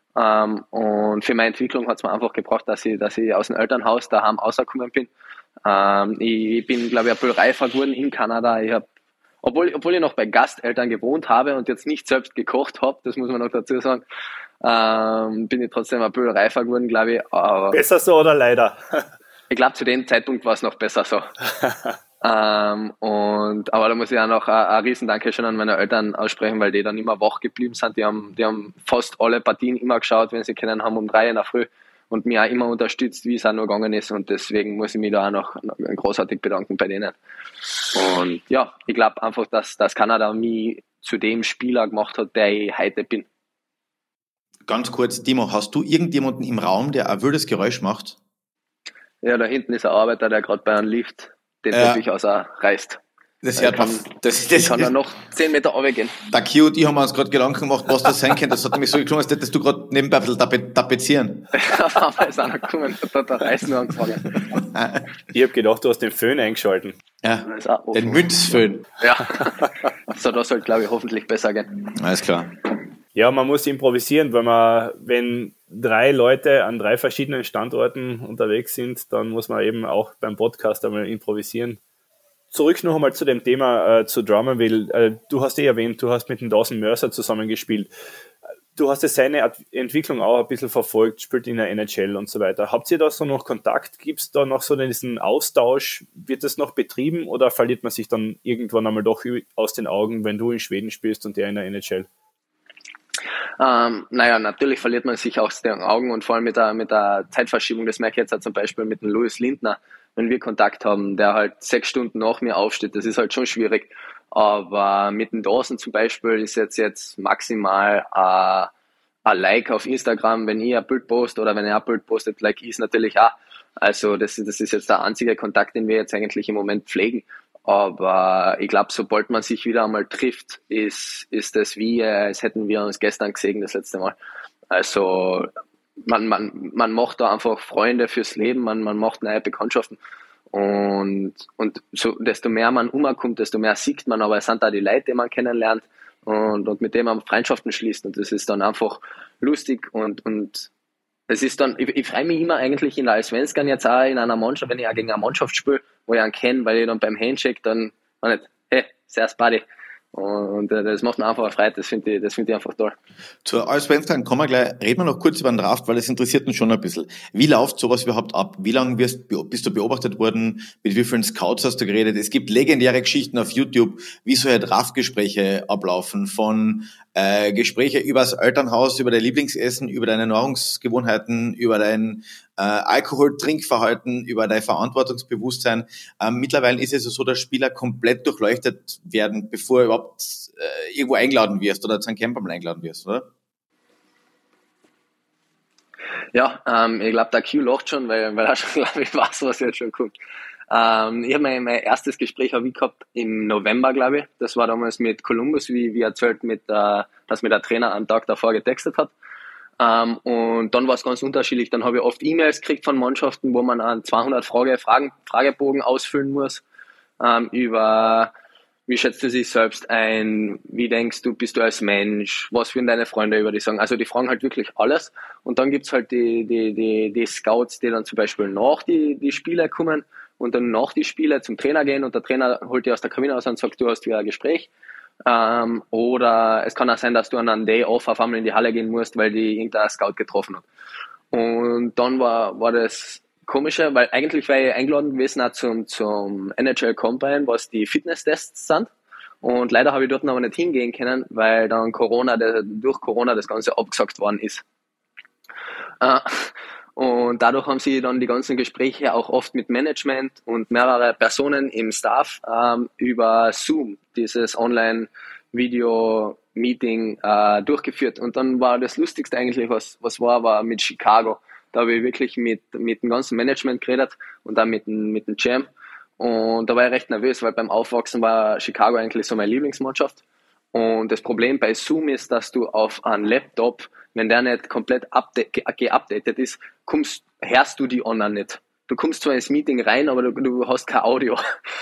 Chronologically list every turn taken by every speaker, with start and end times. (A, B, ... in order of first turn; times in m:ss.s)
0:00.2-0:05.1 A
0:05.6-0:08.9 A
0:09.4-0:14.0 A
0:14.6-0:17.8 A
0:17.7-0:19.1 B
0:19.5-0:21.3 A
0:22.2-0:37.2 A
0:37.9-0:43.3 A
0:44.7-0:48.2 C
0:49.2-0:53.0 A
0:51.7-0:52.0 C
0:53.4-0:54.9 C
0:53.6-0:54.1 A
0:54.6-0:56.2 A
0:56.2-1:01.5 C
1:01.5-1:04.3 A
1:04.4-1:05.0 C
1:05.3-1:07.0 B
1:07.2-1:08.9 C
1:07.5-1:08.3 A
1:09.0-1:11.7 A
1:11.9-1:12.6 C
1:13.2-1:21.8 B
1:22.5-1:27.9 B
1:28.8-1:42.1 B
1:43.6-1:58.7 A
1:59.2-2:14.2 A
2:14.7-2:15.5 A
2:16.0-2:20.0 A
2:20.5-2:30.7 A
2:31.3-2:39.6 A
2:40.1-2:43.0 A
2:43.4-3:13.3 C
3:16.3-3:20.1 A
3:20.7-3:29.1 A
3:29.8-3:36.6 A
3:37.2-3:38.3 A
3:38.9-3:54.7 A
3:55.3-4:00.6 A
4:01.3-4:08.9 A
4:09.4-4:14.6 A
4:16.0-4:40.2 A
4:40.7-4:51.4 A